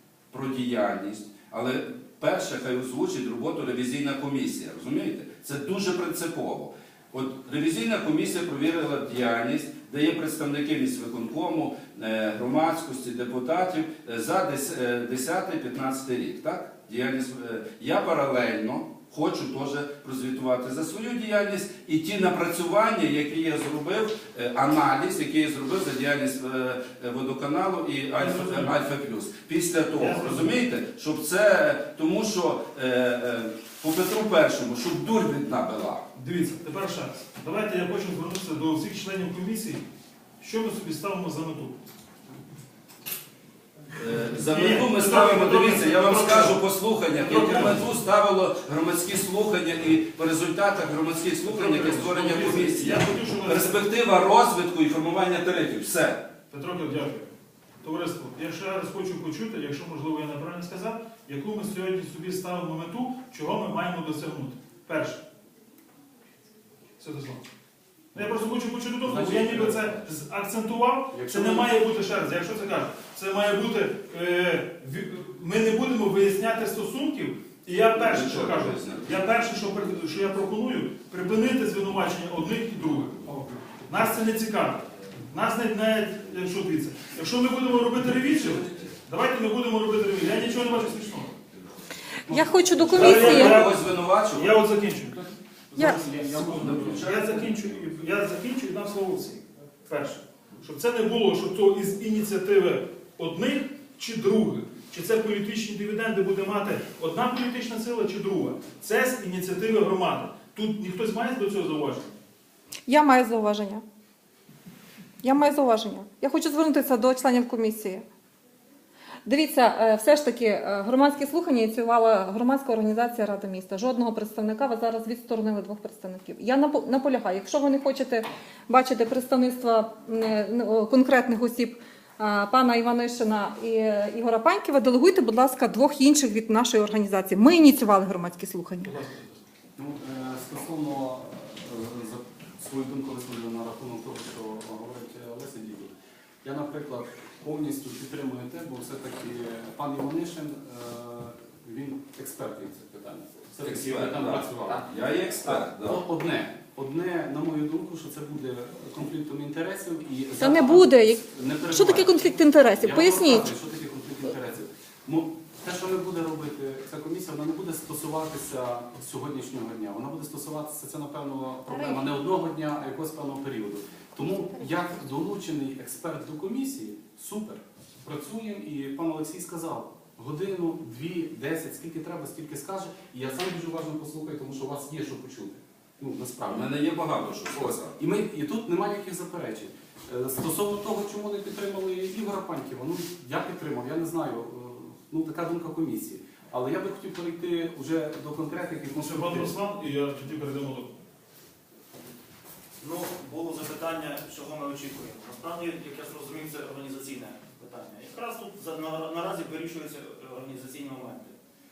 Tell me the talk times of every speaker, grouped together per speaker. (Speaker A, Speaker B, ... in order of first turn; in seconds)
Speaker A: 0.3-36.0, 44.0-56.2, 77.9-79.5, 92.9-94.5, 96.2-97.4, 153.6-156.0, 186.5-187.9
Speaker B: 28.1-28.7, 29.9-30.5, 36.1-39.8, 40.4-41.9, 44.4-46.6, 47.1-47.8, 51.4-53.8, 56.5-57.3, 57.8-65.2, 67.0-67.4, 68.1-91.4, 92.9-95.3, 96.5-112.1, 138.8-139.4, 198.9-201.0
Speaker C: 69.0-70.1, 71.1-71.7, 95.7-97.7, 139.8-145.9, 146.4-154.9, 155.4-186.8, 187.5-199.5
Speaker D: 92.3-93.6, 95.7-96.1, 112.9-113.8, 115.2-118.0, 119.2-138.9, 160.4-163.5, 171.7-172.0
Speaker E: 202.8-211.3